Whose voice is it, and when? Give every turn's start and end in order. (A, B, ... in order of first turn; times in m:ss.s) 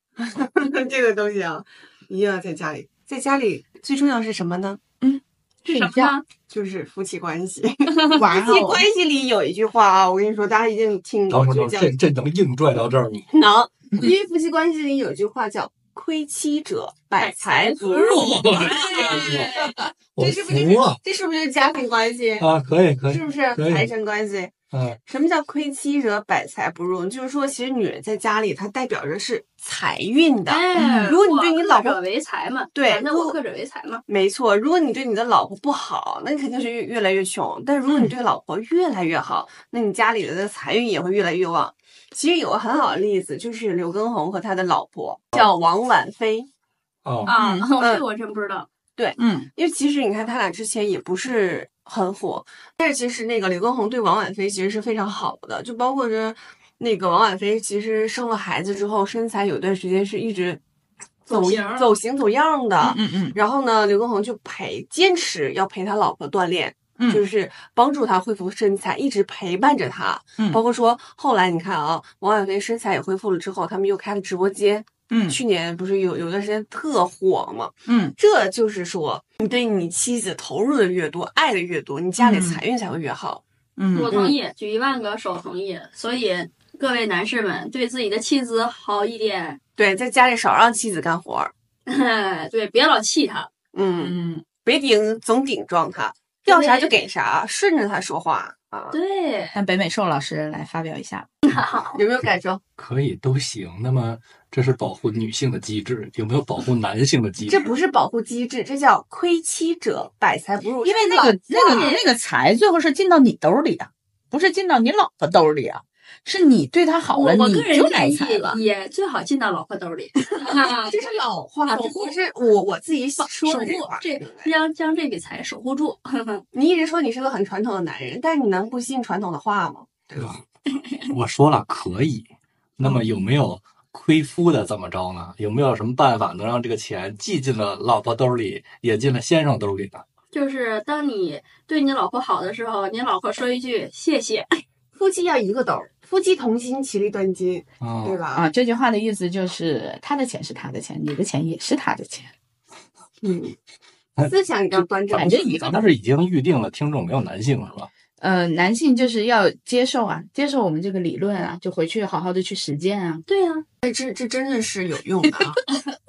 0:00.2-0:04.8 A
0:05.0-0:06.1 B
0:05.6-0:06.2 C
0:06.5-0:11.9 A
0:07.9-0:08.2 C
0:08.1-0:08.9 B
0:11.3-0:13.3 D
0:13.3-0:22.5 A
0:17.2-0:19.7 C
0:17.9-0:21.0 D
0:22.4-0:23.9 D
0:23.1-0:24.5 A
0:24.7-0:25.0 D
0:25.0-0:32.0 A
0:30.5-0:34.0 C
0:30.8-0:31.1 B
0:32.7-0:33.4 A
0:34.1-0:46.5 A
0:47.0-0:47.3 D
0:47.2-0:48.7 C
0:47.3-0:47.7 B
0:47.8-0:48.0 A
0:49.0-1:00.6 A
0:49.2-0:49.5 B
1:01.3-1:01.9 C
1:01.3-1:23.4 A
1:02.8-1:03.4 B
1:07.0-1:07.2 B
1:15.1-1:15.4 B
1:17.9-1:18.1 B
1:22.2-1:22.6 B
1:23.8-1:24.2 B
1:23.9-1:29.6 C
1:24.1-1:24.4 A
1:29.8-1:31.5 A
1:31.9-1:33.5 C
1:33.7-1:39.0 A
1:34.0-1:34.4 B
1:36.4-1:36.9 C
1:38.9-1:39.6 C
1:39.5-1:41.3 B
1:41.4-1:42.0 C
1:41.9-1:42.6 A
1:42.8-1:47.7 D
1:47.4-1:51.9 A
1:50.8-1:58.6 B
1:51.6-1:52.0 C
1:57.1-2:01.0 C
2:00.6-2:04.5 A
2:01.7-2:02.1 C
2:03.2-2:06.4 C
2:06.5-2:10.4 A
2:11.0-2:12.3 D
2:12.8-2:20.0 D
2:20.3-2:24.6 C
2:24.9-2:28.4 A
2:27.8-2:28.2 D
2:28.3-2:32.3 B
2:33.2-2:33.6 A
2:34.2-2:35.5 A
2:35.1-2:37.9 D
2:35.1-2:35.9 B
2:38.2-2:43.2 B
2:43.3-2:43.6 C
2:43.8-2:45.6 A